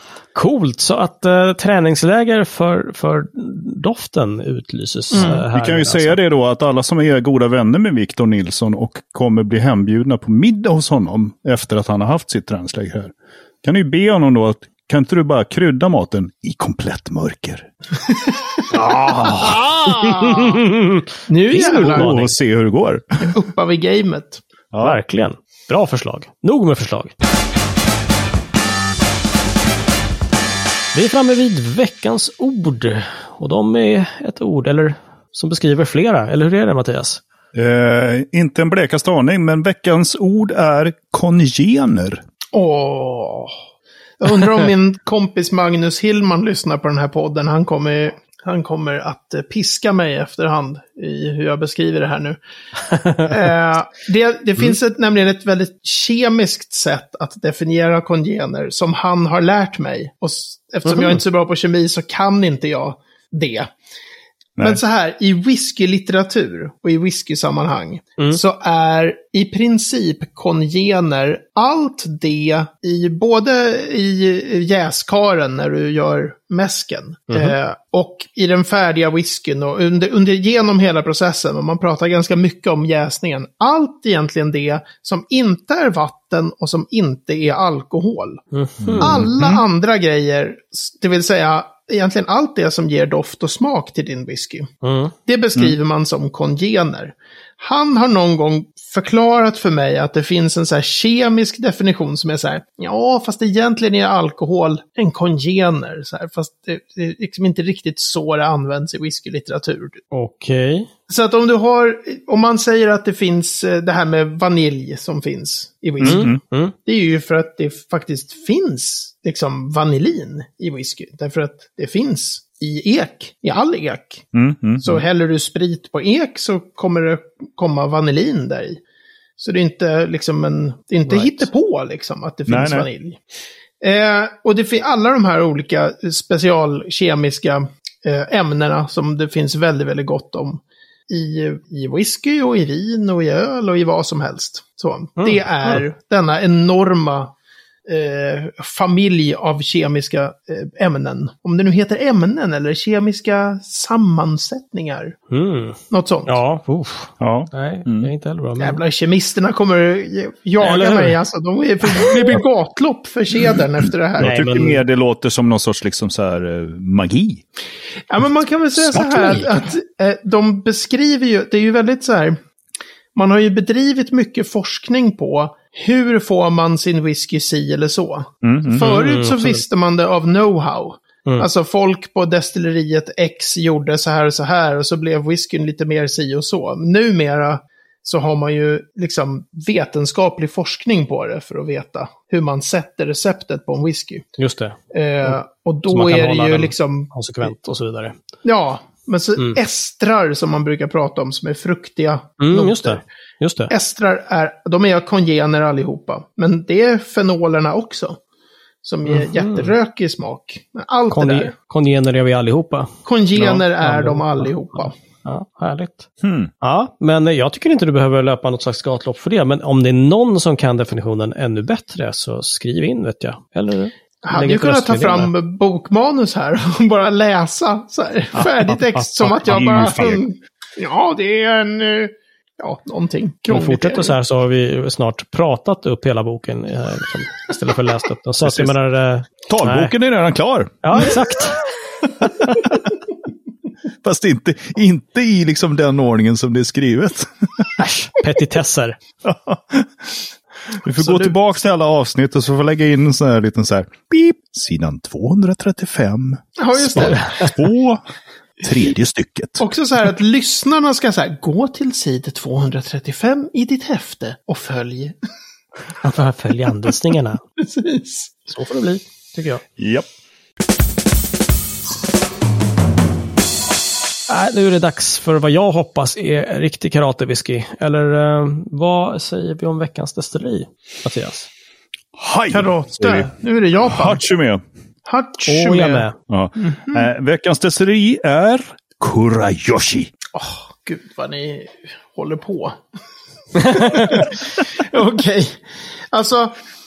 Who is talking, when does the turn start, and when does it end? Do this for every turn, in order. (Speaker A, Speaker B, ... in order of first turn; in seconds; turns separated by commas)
Speaker A: 0.3-6.2, Speaker B: 5.1-5.4, Speaker C: 5.1-17.7, Speaker A: 18.7-22.3, Speaker B: 19.0-20.6, Speaker B: 21.3-22.2, Speaker C: 21.7-23.3, Speaker B: 23.2-24.4, Speaker C: 24.7-25.0, Speaker A: 24.8-27.1, Speaker A: 30.9-37.2, Speaker C: 37.5-42.2, Speaker B: 42.5-43.6, Speaker B: 44.2-52.4, Speaker A: 52.9-53.2, Speaker B: 53.2-63.7, Speaker A: 60.9-61.2, Speaker B: 64.6-88.4, Speaker A: 77.3-77.5, Speaker A: 88.5-89.2, Speaker C: 88.8-89.6, Speaker B: 89.0-94.7, Speaker A: 94.8-95.1, Speaker B: 95.2-110.0, Speaker A: 110.1-110.9, Speaker B: 111.1-116.3, Speaker C: 116.0-116.4, Speaker A: 116.0-116.7, Speaker B: 116.8-124.3, Speaker C: 124.3-125.0, Speaker B: 124.8-128.8, Speaker B: 129.4-133.2, Speaker A: 131.1-131.5, Speaker C: 132.5-132.9, Speaker B: 133.8-147.3, Speaker A: 145.2-145.8, Speaker B: 147.8-155.2, Speaker A: 155.3-158.8, Speaker B: 155.9-156.4, Speaker C: 157.2-158.1, Speaker B: 158.6-164.6, Speaker A: 160.6-161.2, Speaker C: 164.2-167.4, Speaker A: 164.2-164.8, Speaker B: 168.1-172.4, Speaker A: 168.8-169.6, Speaker B: 173.1-194.2, Speaker C: 178.4-178.8, Speaker A: 178.7-179.6, Speaker A: 194.4-195.4, Speaker B: 194.9-197.5, Speaker A: 195.9-198.2, Speaker B: 198.4-203.0, Speaker A: 202.4-203.7, Speaker B: 203.7-208.2, Speaker B: 208.8-211.5, Speaker A: 209.1-209.7, Speaker A: 211.1-216.1, Speaker B: 213.1-214.9, Speaker C: 216.2-216.5, Speaker A: 216.6-225.3, Speaker B: 224.2-234.1, Speaker A: 228.3-229.1, Speaker C: 229.2-230.2, Speaker A: 233.5-239.9, Speaker C: 238.4-238.7, Speaker C: 239.5-241.2, Speaker A: 240.8-241.6, Speaker A: 242.2-242.7, Speaker C: 244.0-247.8, Speaker A: 247.8-249.0, Speaker C: 249.2-258.0, Speaker B: 251.0-251.3, Speaker B: 256.6-257.3, Speaker A: 256.9-257.6, Speaker C: 258.6-259.6, Speaker B: 259.6-265.1, Speaker A: 266.0-267.4, Speaker B: 267.6-268.4, Speaker A: 268.5-269.6, Speaker C: 269.8-270.1, Speaker A: 274.3-281.5, Speaker C: 282.1-283.3, Speaker B: 282.5-284.2, Speaker C: 283.8-284.6, Speaker B: 285.1-286.1, Speaker A: 285.4-286.1, Speaker C: 286.3-290.1, Speaker B: 286.6-287.1, Speaker B: 290.3-292.8, Speaker A: 293.6-294.2, Speaker B: 293.6-296.5